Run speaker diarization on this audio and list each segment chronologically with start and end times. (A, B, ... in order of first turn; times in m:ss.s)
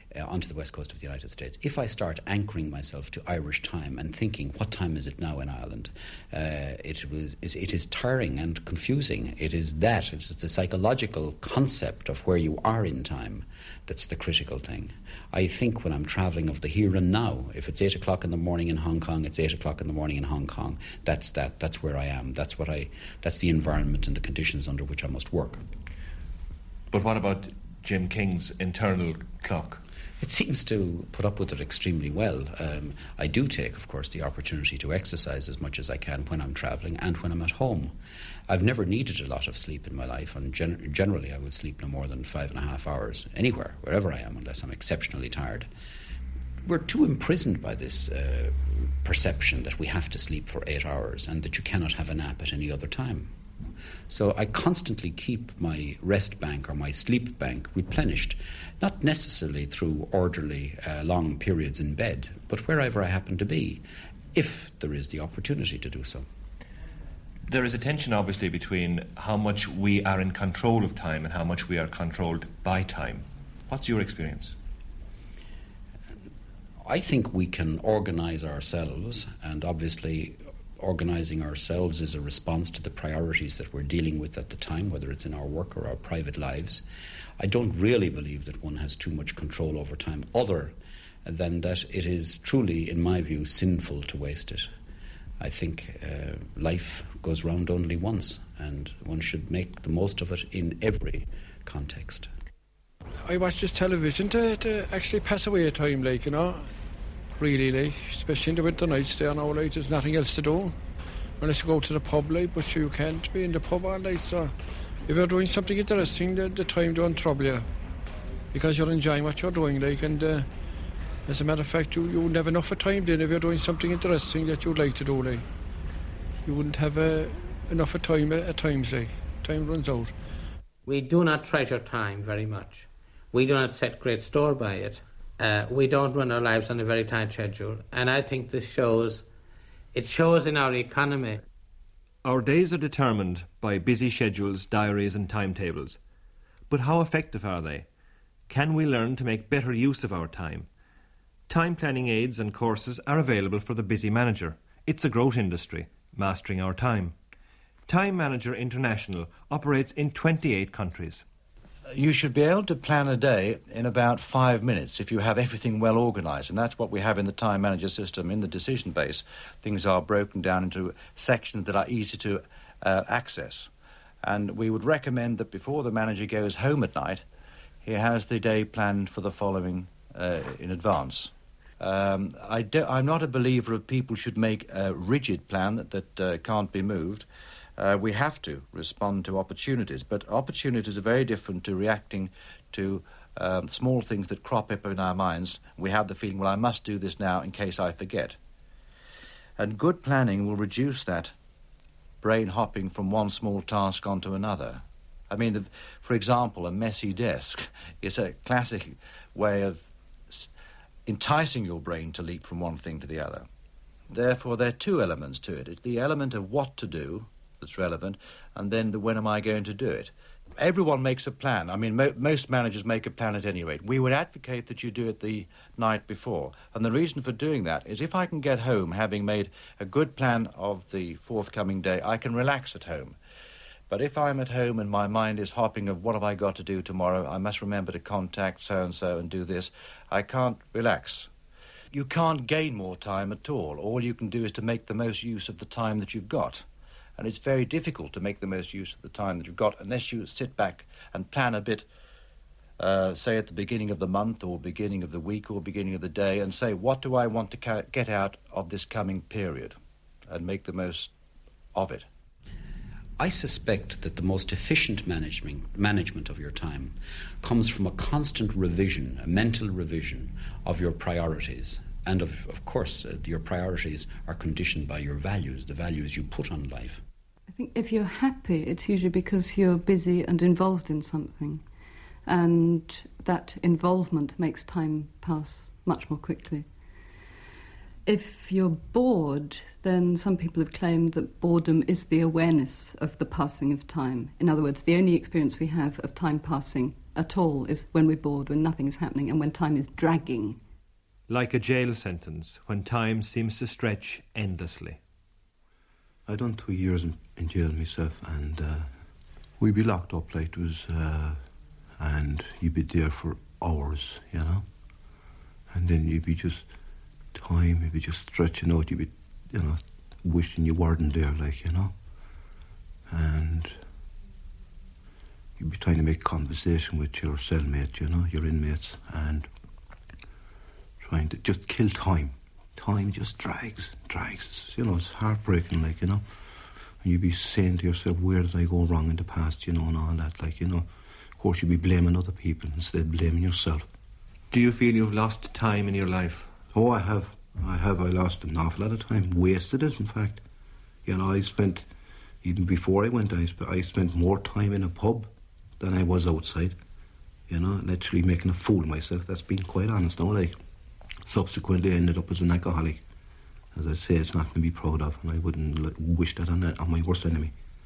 0:00.1-0:25.6 A
0:26.9-0:29.8 B
0:30.2-0:37.9 A
0:38.5-0:45.7 A
0:46.6-0:53.3 A
0:54.1-1:03.8 A
1:04.3-1:06.2 A
1:07.5-1:14.5 B
1:16.8-1:26.8 A
1:27.4-1:34.7 A
1:35.4-1:42.3 A
1:43.3-1:46.6 C
1:47.4-1:50.7 C
1:51.4-1:54.5 C
1:55.1-1:57.6 C
1:58.5-2:00.5 C
2:01.3-2:05.4 C
2:06.4-2:10.1 C
2:10.9-2:19.2 D
2:19.9-2:21.4 D
2:22.2-2:26.0 B
2:26.7-2:27.9 B
2:28.5-2:30.7 B
2:31.5-2:37.2 B
2:37.9-2:41.2 B
2:41.9-2:53.7 E
2:54.2-2:57.2 E
2:57.8-3:07.2 E
3:07.8-3:18.4 E
3:19.6-3:21.3 E
3:22.2-3:30.5 E
3:31.1-3:33.5 E
3:34.1-3:53.2 E
3:53.9-4:01.3 E
4:01.9-4:06.6 E
4:07.2-4:11.9 E
4:12.8-4:19.7 E
4:20.3-4:21.1 E
4:21.7-4:22.1 E
4:23.2-4:37.0 A
4:37.5-4:41.7 F
4:42.2-4:47.0 F
4:48.0-5:00.6 F
5:01.3-5:05.0 B
5:06.3-5:08.9 G
5:09.6-5:11.4 G
5:12.0-5:14.6 G
5:15.7-5:16.6 G
5:17.3-5:21.9 G
5:23.1-5:23.8 G
5:25.6-5:29.5 G
5:31.0-5:36.2 G
5:37.0-5:43.9 G
5:44.5-5:46.5 B
5:46.7-5:50.4 G
5:51.1-5:51.9 G
5:52.4-5:56.8 G
5:57.5-6:00.6 G
6:01.2-6:03.0 G
6:03.8-6:07.5 G